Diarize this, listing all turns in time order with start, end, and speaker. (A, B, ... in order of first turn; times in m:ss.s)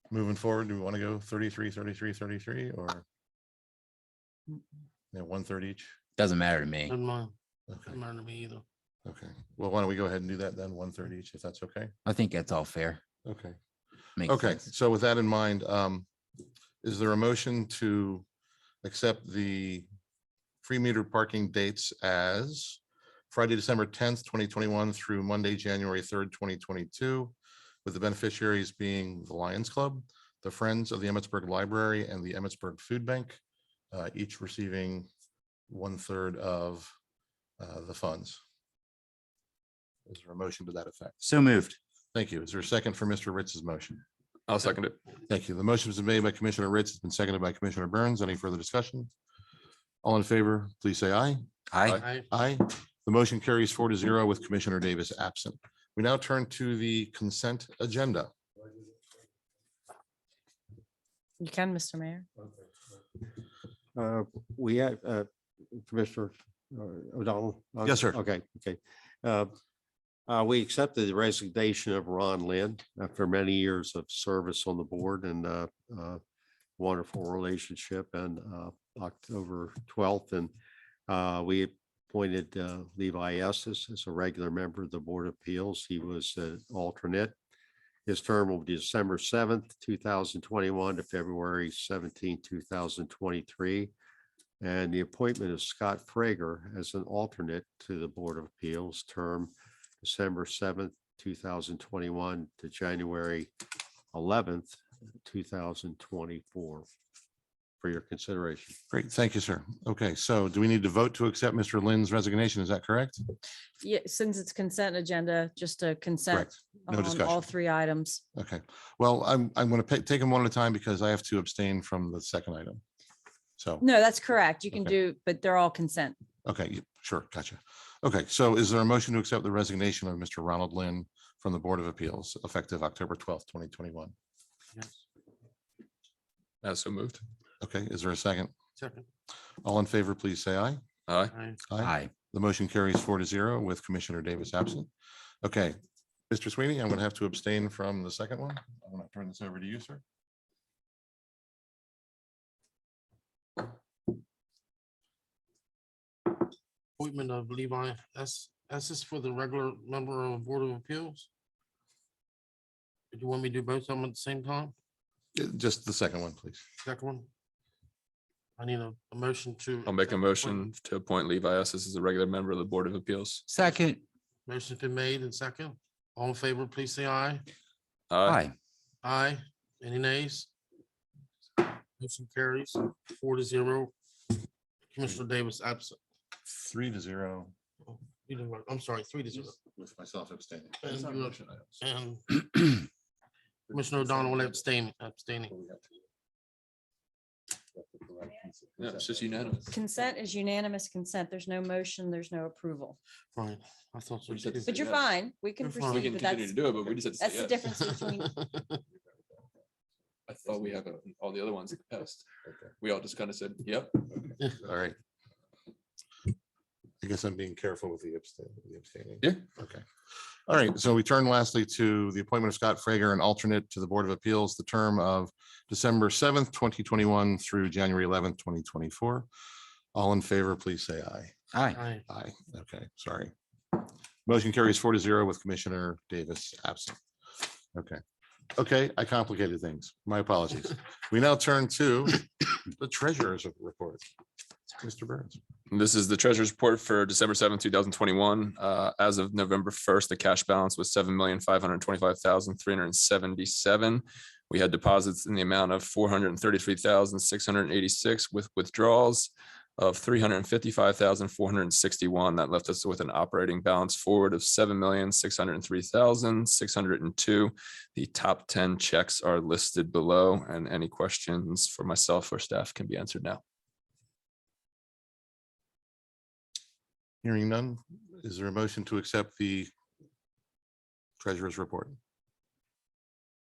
0:00.1-0:03.0 A
0:05.1-0:05.9 A
0:06.2-0:07.0 B
0:06.9-0:07.3 C
0:07.7-0:07.9 A
0:07.9-0:08.6 C
0:09.0-0:11.9 A
0:12.1-0:13.0 B
0:13.2-0:13.6 A
0:14.2-0:14.6 B
0:14.2-0:16.1 A
0:16.8-0:18.2 A
0:18.8-0:19.9 A
0:20.6-0:22.8 A
0:23.3-0:33.4 A
0:33.9-0:35.1 A
0:35.7-0:36.9 A
0:37.6-0:38.4 A
0:40.1-0:41.2 A
0:41.2-0:41.8 B
0:42.1-0:44.0 A
0:44.5-0:45.0 D
0:45.3-0:49.1 A
0:50.0-0:51.4 A
0:51.7-0:52.0 B
0:52.3-0:58.3 A
1:01.4-1:02.3 E
1:04.0-1:09.5 F
1:07.8-1:08.2 A
1:10.3-1:16.2 F
1:16.8-1:20.5 F
1:21.1-1:27.4 F
1:28.1-1:33.9 F
1:34.6-1:43.5 F
1:44.1-1:46.9 F
1:47.8-1:48.8 F
1:48.9-1:53.2 A
1:53.8-1:58.2 E
1:56.3-1:57.4 A
1:58.4-2:02.8 A
2:03.6-2:03.9 A
2:03.8-2:06.2 E
2:06.4-2:14.1 A
2:16.6-2:17.2 D
2:17.6-2:18.5 A
2:19.6-2:20.8 A
2:21.1-2:21.3 D
2:21.7-2:24.9 A
2:21.8-2:22.1 B
2:25.4-2:25.8 A
2:26.3-2:30.0 A
2:37.0-2:41.3 C
2:43.1-2:44.7 C
2:45.3-2:46.6 A
2:46.9-2:47.3 C
2:48.6-2:50.2 C
2:49.8-2:53.4 D
2:53.5-2:54.0 B
2:54.5-2:57.4 C
2:58.1-2:58.4 D
2:58.2-2:58.6 B
2:59.0-3:00.5 C
3:02.0-3:03.9 C
3:04.9-3:06.0 C
3:06.5-3:07.5 A
3:08.3-3:09.5 C
3:09.5-3:10.9 A
3:10.8-3:11.8 D
3:10.9-3:11.2 C
3:11.9-3:12.6 C
3:13.7-3:14.6 A
3:13.7-3:15.5 C
3:15.4-3:15.9 A
3:17.7-3:19.6 A
3:18.8-3:19.7 D
3:19.7-3:23.0 E
3:23.4-3:24.6 C
3:24.3-3:25.1 D
3:24.7-3:26.6 E
3:25.6-3:26.1 C
3:25.9-3:27.8 D
3:27.2-3:28.4 E
3:30.3-3:32.2 D
3:32.8-3:34.4 D
3:34.5-3:35.0 A
3:37.0-3:39.8 A
3:40.5-3:49.3 A
3:49.9-3:51.4 A
3:51.5-3:51.8 B
3:52.0-3:57.0 A
3:57.7-3:58.0 A
3:58.6-4:04.0 A
4:04.8-4:05.4 A
4:05.7-4:33.4 D
4:37.2-4:39.7 A
4:41.2-4:42.0 A